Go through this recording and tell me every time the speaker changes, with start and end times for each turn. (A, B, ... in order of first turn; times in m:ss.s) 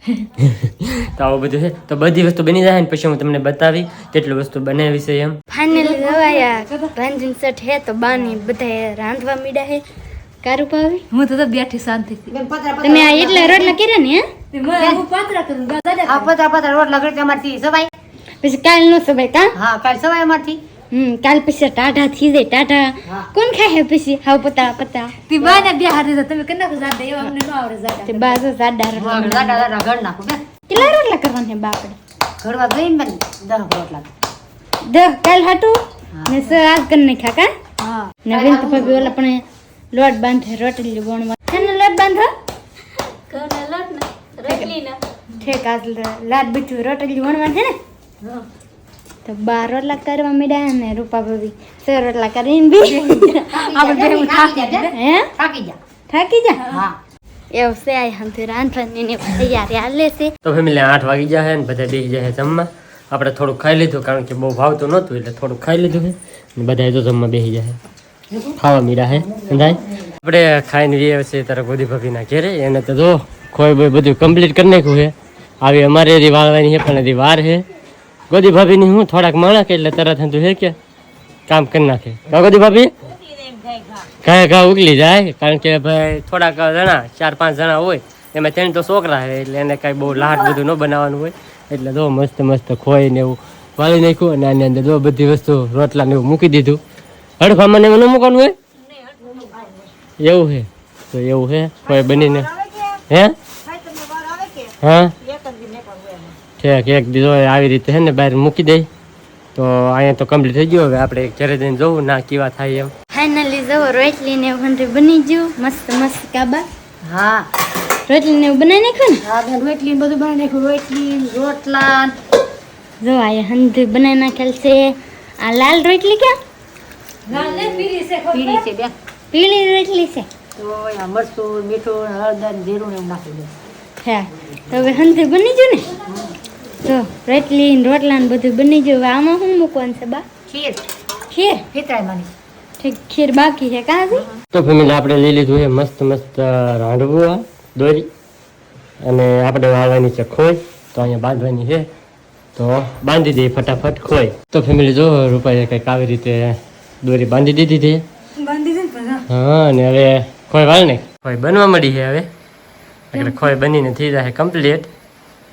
0:00.4-0:05.4 A
0:05.5-0:09.8 B
0:05.7-0:06.9 C
0:10.4-0:11.0 B
0:11.1-0:12.3 C
0:12.3-0:13.8 D
0:12.8-0:14.3 B
0:14.5-0:16.3 C
0:14.8-0:15.0 D
0:16.0-0:17.9 D
0:18.4-0:19.6 B
0:19.6-0:20.6 D
0:20.9-0:25.2 B
0:25.3-0:28.4 C
0:25.4-0:25.7 D
0:28.1-0:29.7 B
0:29.0-0:30.8 D
0:30.7-0:32.0 B
0:32.4-0:34.1 D
0:34.8-0:37.5 B
0:36.2-0:36.6 D
0:37.8-0:39.2 D
0:38.2-0:42.3 B
0:43.3-0:47.8 B
0:44.5-0:44.7 C
0:49.2-0:53.6 B
0:52.8-0:54.9 C
0:53.5-0:55.8 D
0:54.9-0:55.3 B
0:56.1-0:56.6 B
0:56.7-0:57.0 D
0:57.5-1:00.3 B
1:00.4-1:07.8 A
1:08.6-1:17.6 A
1:09.3-1:10.1 D
1:18.3-1:20.8 A
1:21.5-1:22.9 A
1:24.2-1:36.8 A
1:37.4-1:38.6 A
1:40.2-1:42.5 A
1:43.7-1:44.7 D
1:44.8-1:45.1 A
1:45.4-1:46.2 D
1:46.6-1:48.9 A
1:49.6-1:52.9 A
1:53.1-1:56.7 B
1:57.0-1:57.5 D
1:58.1-1:59.2 B
1:59.2-2:02.1 D
2:03.0-2:06.4 B
2:07.3-2:08.6 C
2:08.3-2:09.0 D
2:09.3-2:10.3 B
2:10.6-2:13.5 D
2:14.0-2:15.9 B
2:16.1-2:16.3 D
2:16.8-2:20.2 B
2:20.5-2:20.8 D
2:21.3-2:21.6 B
2:21.7-2:22.3 D
2:22.8-2:24.3 B
2:24.5-2:28.1 A
2:29.0-2:31.9 A
2:32.6-2:38.0 A
2:38.4-2:39.3 C
2:39.3-2:42.3 A
2:43.1-2:44.9 A
2:43.1-2:43.5 C